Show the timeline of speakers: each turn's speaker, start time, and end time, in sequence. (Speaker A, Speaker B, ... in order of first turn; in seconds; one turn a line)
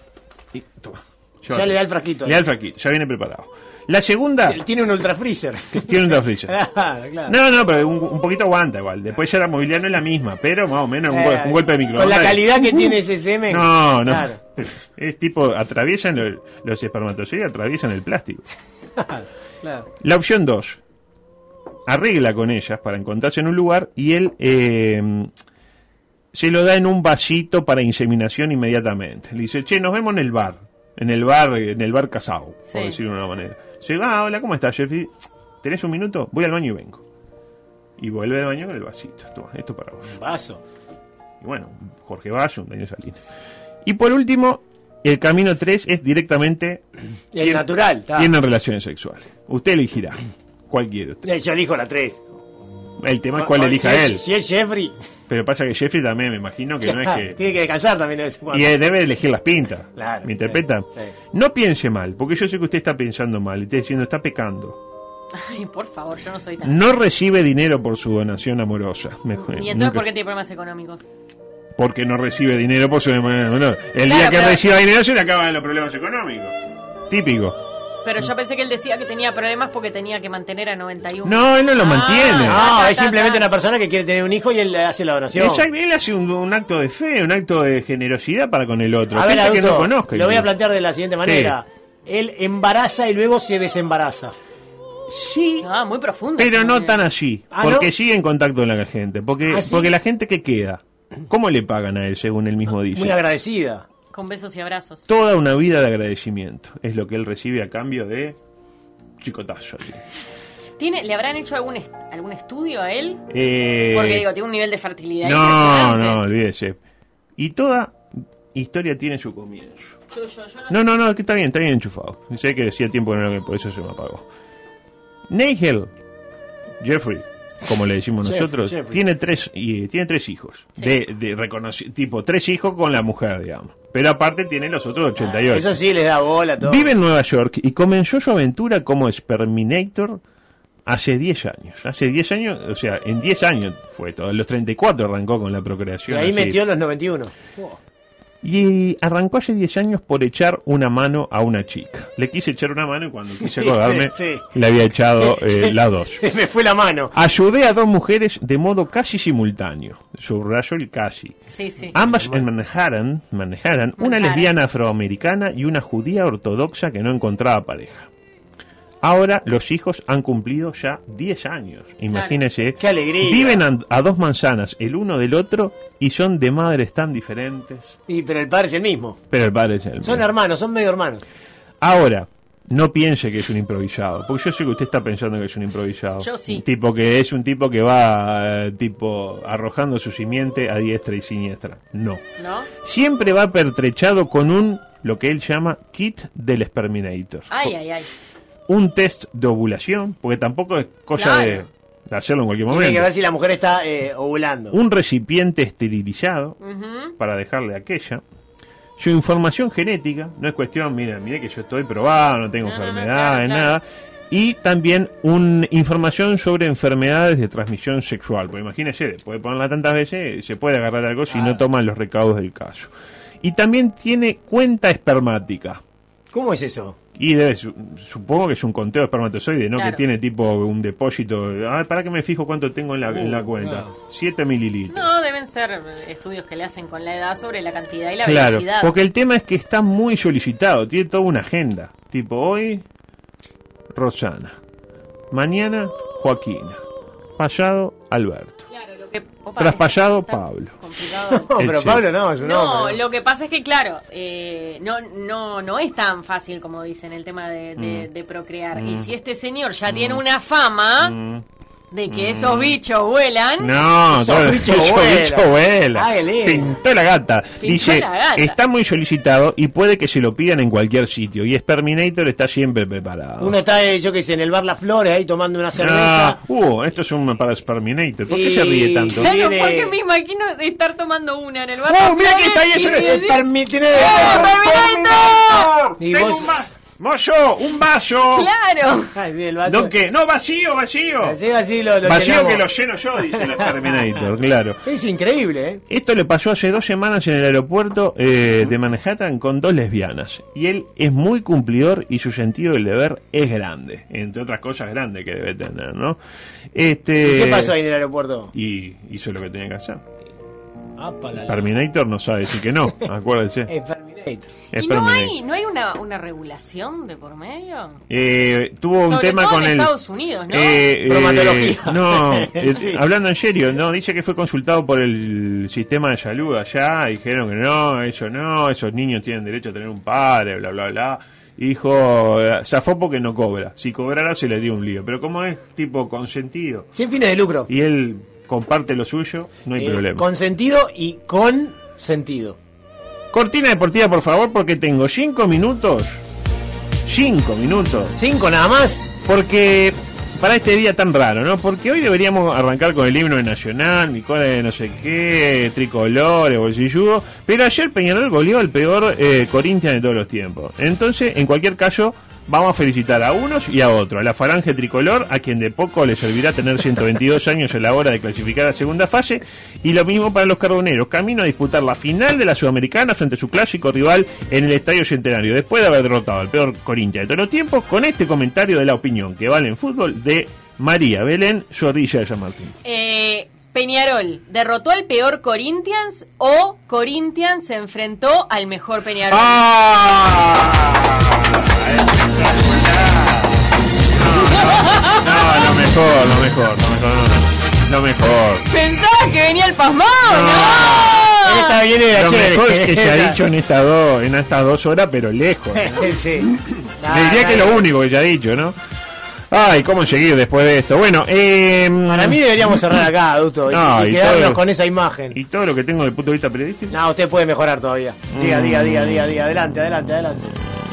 Speaker A: 0.5-4.6
Speaker B: 1.5-2.4
Speaker B: 4.5-7.3
Speaker A: 5.7-6.6
Speaker A: 7.3-18.5
Speaker B: 11.1-14.4
Speaker B: 19.0-19.9
Speaker A: 20.0-20.8
Speaker A: 21.9-25.3
Speaker A: 26.3-37.0
Speaker C: 32.7-33.0
Speaker A: 38.0-40.2
Speaker B: 40.1-40.6
Speaker A: 41.4-43.2
Speaker A: 43.8-46.9
Speaker B: 47.3-48.3
Speaker A: 47.4-51.3
Speaker B: 51.2-52.3
Speaker A: 53.0-54.2
Speaker B: 53.4-55.0
Speaker A: 55.3-57.4
Speaker B: 56.9-58.7
Speaker A: 58.5-64.8
Speaker B: 60.0-61.1
Speaker C: 65.3-66.8
Speaker A: 66.6-70.1
Speaker C: 69.4-71.0
Speaker A: 71.8-76.6
Speaker C: 74.1-74.6
Speaker A: 77.1-77.6
Speaker C: 78.0-83.5
Speaker A: 81.2-82.6
Speaker B: 82.5-85.7
Speaker A: 85.3-90.5
Speaker B: 89.1-94.3
Speaker A: 91.2-91.6
Speaker A: 95.1-95.7
Speaker C: 95.6-97.0
Speaker A: 96.4-103.2
Speaker B: 97.5-97.9
Speaker B: 99.5-99.9
Speaker B: 102.9-103.8
Speaker C: 104.1-105.0
Speaker A: 105.1-108.4
Speaker A: 109.2-110.0
Speaker C: 110.8-113.2
Speaker A: 113.3-114.3
Speaker C: 113.9-116.2
Speaker A: 115.2-116.8
Speaker A: 117.4-120.0
Speaker C: 120.2-120.7
Speaker A: 120.7-124.3
Speaker A: 125.3-125.9
Speaker A: 126.8-135.8
Speaker B: 128.2-129.0
Speaker B: 135.2-136.9
Speaker A: 136.6-140.2
Speaker A: 140.9-146.6
Speaker B: 146.1-147.8
Speaker A: 148.4-156.2
Speaker B: 153.4-154.4
Speaker B: 155.2-157.1
Speaker A: 157.1-161.4
Speaker C: 161.5-161.9
Speaker B: 161.9-162.4
Speaker A: 161.9-168.1
Speaker C: 164.0-164.5
Speaker A: 169.0-178.0
Speaker C: 172.1-172.4
Speaker B: 172.8-173.6
Speaker B: 178.1-179.2
Speaker A: 179.3-180.3
Speaker B: 180.0-181.2
Speaker A: 181.8-192.2
Speaker C: 186.2-186.6
Speaker C: 192.4-192.7
Speaker A: 192.8-197.7
Speaker C: 197.5-198.1
Speaker A: 198.7-203.1
Speaker C: 201.2-201.7
Speaker B: 202.7-204.8
Speaker A: 204.7-206.6
Speaker C: 206.6-207.1
Speaker A: 207.2-208.2
Speaker A: 209.0-222.9
Speaker C: 212.6-213.8
Speaker B: 221.3-221.6
Speaker A: 223.4-225.8
Speaker B: 226.3-227.0
Speaker A: 227.2-235.1
Speaker B: 233.1-233.9
Speaker C: 234.9-238.9
Speaker A: 238.2-242.8
Speaker A: 243.9-244.6
Speaker A: 245.3-246.8
Speaker A: 247.4-248.7
Speaker C: 248.7-251.5
Speaker A: 249.6-250.8
Speaker B: 251.3-253.0
Speaker A: 251.6-252.1
Speaker C: 252.4-261.1
Speaker A: 257.8-258.1
Speaker A: 258.7-259.1
Speaker A: 259.9-260.2
Speaker A: 261.0-261.4
Speaker C: 261.9-263.8
Speaker A: 262.1-262.8
Speaker A: 263.6-273.6
Speaker B: 264.1-266.7
Speaker C: 267.6-268.6
Speaker B: 273.4-276.4
Speaker A: 275.8-279.4
Speaker B: 278.3-279.9
Speaker C: 279.2-285.7
Speaker A: 281.9-283.4
Speaker B: 282.9-284.5
Speaker A: 283.9-288.5
Speaker B: 286.0-286.7
Speaker C: 288.3-289.1
Speaker B: 289.2-289.9
Speaker A: 289.7-291.4
Speaker B: 291.2-292.6
Speaker A: 292.0-294.8
Speaker B: 293.6-293.9
Speaker B: 294.9-295.8
Speaker A: 295.9-306.2
Speaker A: 306.7-307.8
Speaker B: 307.2-308.5
Speaker A: 308.5-310.0
Speaker B: 311.0-311.7
Speaker A: 311.5-313.7
Speaker B: 313.7-314.5
Speaker A: 314.7-315.3
Speaker C: 314.8-318.0
Speaker A: 318.1-319.9
Speaker C: 319.0-320.9
Speaker A: 320.5-336.9
Speaker B: 321.1-323.0
Speaker B: 336.9-337.7
Speaker A: 337.7-340.2
Speaker B: 339.8-342.6
Speaker A: 343.3-346.2
Speaker A: 347.1-348.1
Speaker B: 348.2-349.1
Speaker A: 349.2-382.8
Speaker C: 382.9-389.6
Speaker A: 389.3-398.6
Speaker C: 394.5-395.7
Speaker C: 398.7-401.8
Speaker A: 400.2-401.3
Speaker B: 401.3-403.4
Speaker A: 402.1-406.1
Speaker B: 405.8-407.9
Speaker A: 407.1-408.8
Speaker A: 409.5-413.0
Speaker B: 412.1-415.4
Speaker A: 413.7-414.6
Speaker A: 415.3-417.0
Speaker B: 416.9-420.6
Speaker A: 418.3-419.4